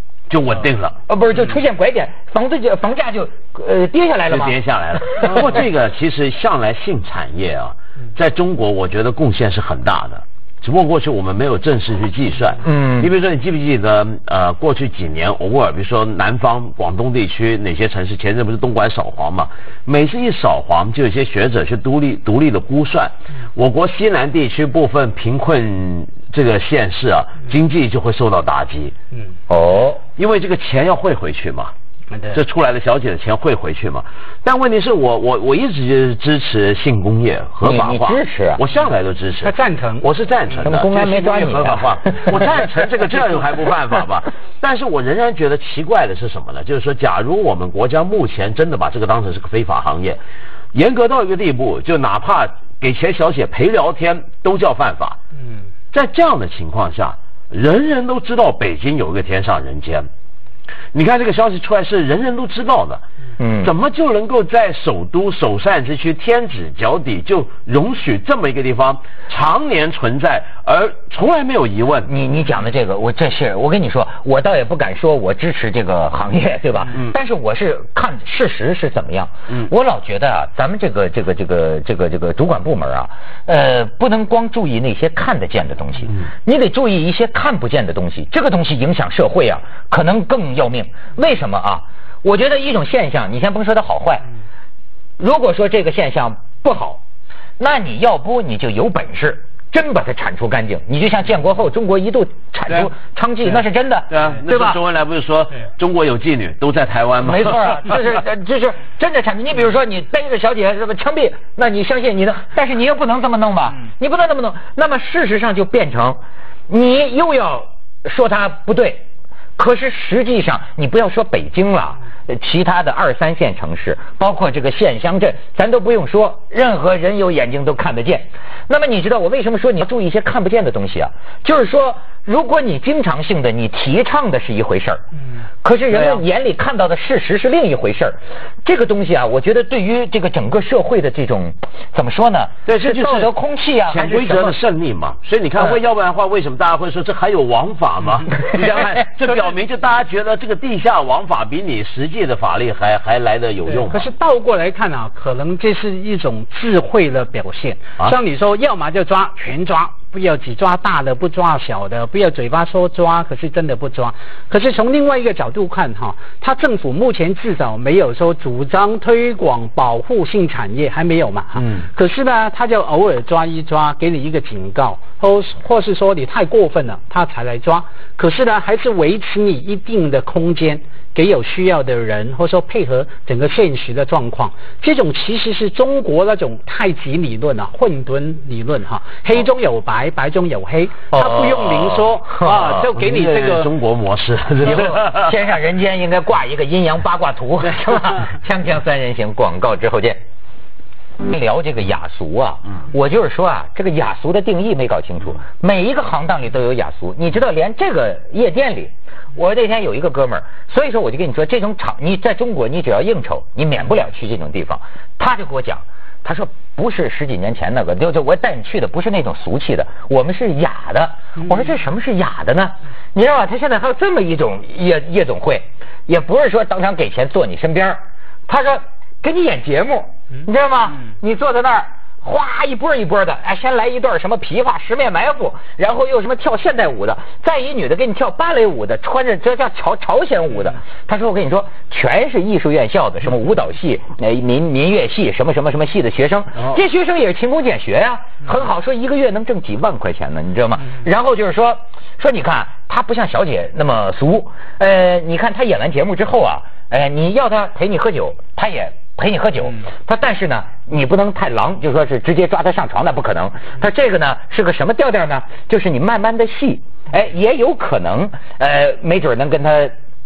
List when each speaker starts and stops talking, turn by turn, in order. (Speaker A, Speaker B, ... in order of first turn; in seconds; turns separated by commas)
Speaker A: 0.3-1.0, Speaker B: 1.1-5.6, Speaker A: 4.3-28.9, Speaker B: 12.6-13.1, Speaker B: 29.5-30.0, Speaker A: 30.2-31.7, Speaker C: 32.1-32.4, Speaker A: 32.3-50.2, Speaker B: 37.6-38.6, Speaker C: 39.4-40.1, Speaker B: 40.6-42.4, Speaker A: 50.7-55.2, Speaker A: 55.9-60.1, Speaker A: 60.9-63.0, Speaker B: 63.4-63.7, Speaker A: 63.6-72.1, Speaker B: 72.0-94.3, Speaker B: 95.2-97.0, Speaker B: 97.6-104.8, Speaker A: 103.5-107.6, Speaker B: 107.2-119.0, Speaker B: 119.5-135.0, Speaker B: 135.6-144.6, Speaker A: 135.9-136.2, Speaker A: 142.7-143.3, Speaker A: 143.9-154.1, Speaker C: 153.7-193.7, Speaker A: 171.6-171.9, Speaker B: 191.1-192.9, Speaker A: 192.9-195.3, Speaker B: 194.6-200.2, Speaker B: 201.2-269.9